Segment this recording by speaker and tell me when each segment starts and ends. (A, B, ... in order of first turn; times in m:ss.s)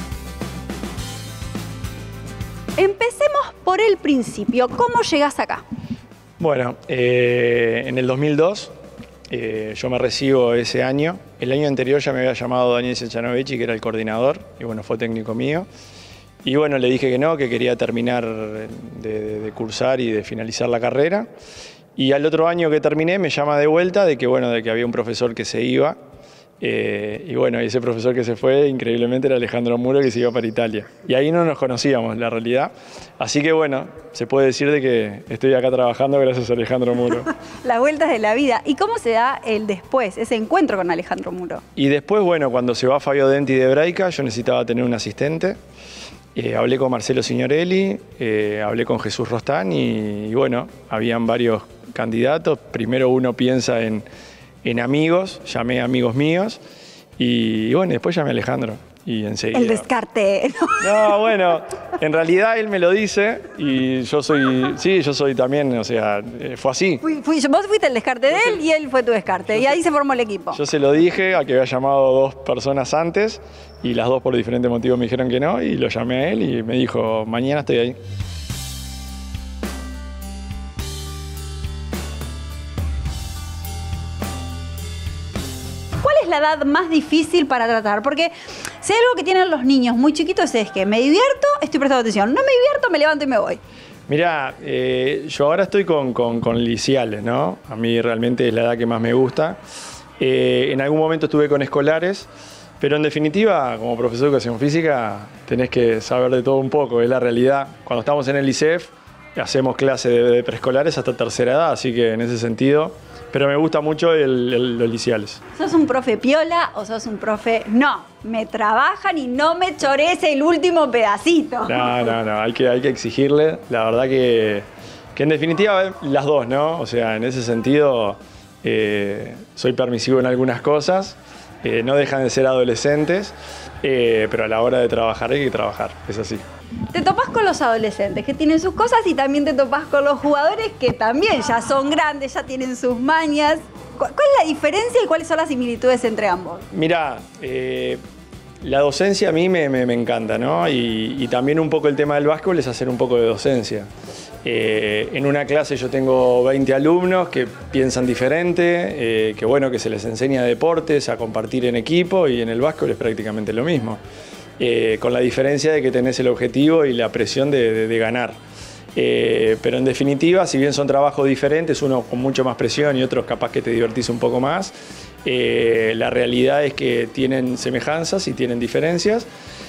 0:02.8-0:05.6 A
0:06.4-0:08.7 B
0:09.3-0:15.7 B
0:16.4-0:21.3 B
0:22.0-0:26.0 B
0:26.6-0:37.3 B
0:37.6-0:41.6 A
0:41.8-0:45.6 B
0:46.4-0:54.0 B
0:54.6-0:56.6 B
0:57.2-0:59.9 B
0:59.5-1:01.2 A
1:00.8-1:07.0 B
1:07.0-1:10.6 A
1:10.5-1:18.0 B
1:26.0-1:33.6 A
1:34.1-1:39.6 B
1:40.2-1:42.3 B
1:42.8-1:55.4 B
1:55.5-2:01.9 A
2:01.7-2:16.4 B
2:16.9-2:26.6 A
2:26.7-2:28.0 B
2:28.6-2:33.9 B
2:34.4-2:44.0 B
2:44.6-2:48.4 B
2:48.9-2:59.3 B